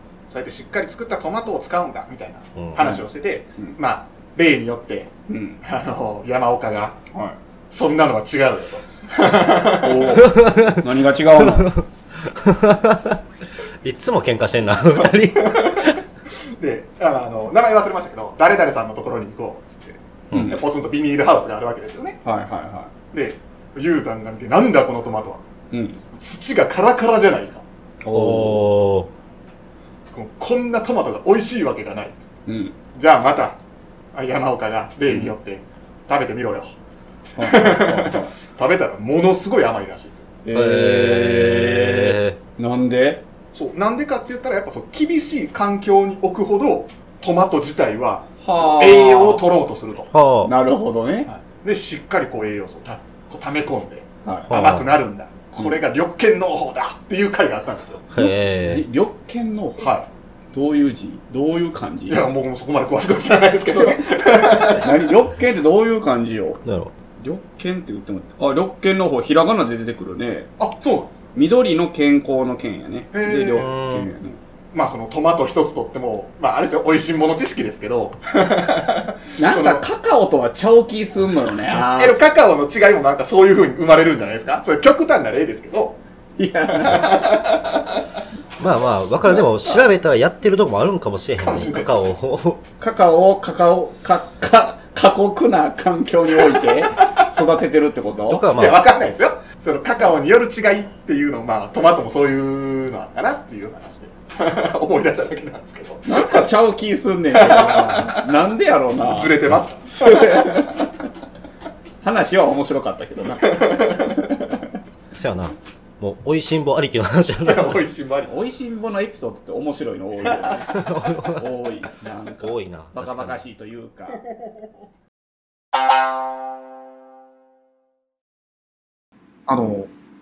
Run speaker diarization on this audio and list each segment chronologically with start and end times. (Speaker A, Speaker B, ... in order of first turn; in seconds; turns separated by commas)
Speaker A: 0.3-5.1, Speaker B: 2.8-3.0, Speaker B: 5.3-5.6, Speaker A: 5.6-7.0, Speaker A: 7.7-10.2, Speaker B: 9.8-11.8, Speaker C: 10.2-10.8, Speaker C: 11.3-13.2, Speaker C: 13.8-16.0, Speaker A: 15.0-15.9, Speaker A: 16.6-22.2, Speaker C: 20.3-20.6, Speaker B: 20.3-20.6, Speaker B: 22.2-22.9, Speaker A: 23.1-25.4, Speaker B: 25.7-26.0, Speaker A: 26.1-27.7, Speaker B: 28.0-28.8, Speaker C: 28.1-29.1, Speaker A: 30.1-32.3, Speaker B: 32.5-32.7, Speaker A: 32.9-33.6, Speaker A: 34.1-40.3, Speaker B: 37.4-38.3, Speaker B: 40.4-43.2, Speaker C: 40.5-42.4, Speaker A: 43.5-50.1, Speaker B: 48.4-49.4, Speaker C: 50.1-50.5, Speaker B: 50.4-51.3, Speaker A: 51.3-58.1, Speaker B: 54.2-54.5, Speaker C: 54.5-54.9, Speaker C: 58.1-58.8, Speaker B: 58.2-59.9, Speaker A: 59.8-60.1, Speaker B: 60.5-62.2, Speaker A: 62.1-64.9, Speaker B: 63.7-66.6, Speaker C: 66.6-66.9, Speaker B: 67.2-70.5, Speaker A: 70.6-71.3, Speaker B: 71.3-74.4, Speaker A: 73.1-73.7, Speaker C: 73.5-74.1, Speaker A: 74.7-79.8, Speaker B: 79.4-82.1, Speaker A: 81.7-86.0, Speaker B: 86.4-87.7, Speaker A: 86.7-87.8, Speaker C: 88.6-92.6, Speaker A: 91.4-92.1, Speaker B: 92.8-98.4, Speaker A: 97.0-97.2, Speaker C: 98.3-98.8, Speaker A: 98.5-106.4, Speaker B: 106.0-109.3, Speaker A: 107.3-108.3, Speaker A: 109.0-110.4, Speaker B: 109.9-110.9, Speaker B: 112.0-114.6, Speaker A: 113.4-114.2, Speaker C: 115.1-117.8, Speaker A: 117.4-118.3, Speaker B: 118.3-124.2, Speaker C: 120.7-121.5, Speaker C: 122.4-123.4, Speaker A: 129.5-129.9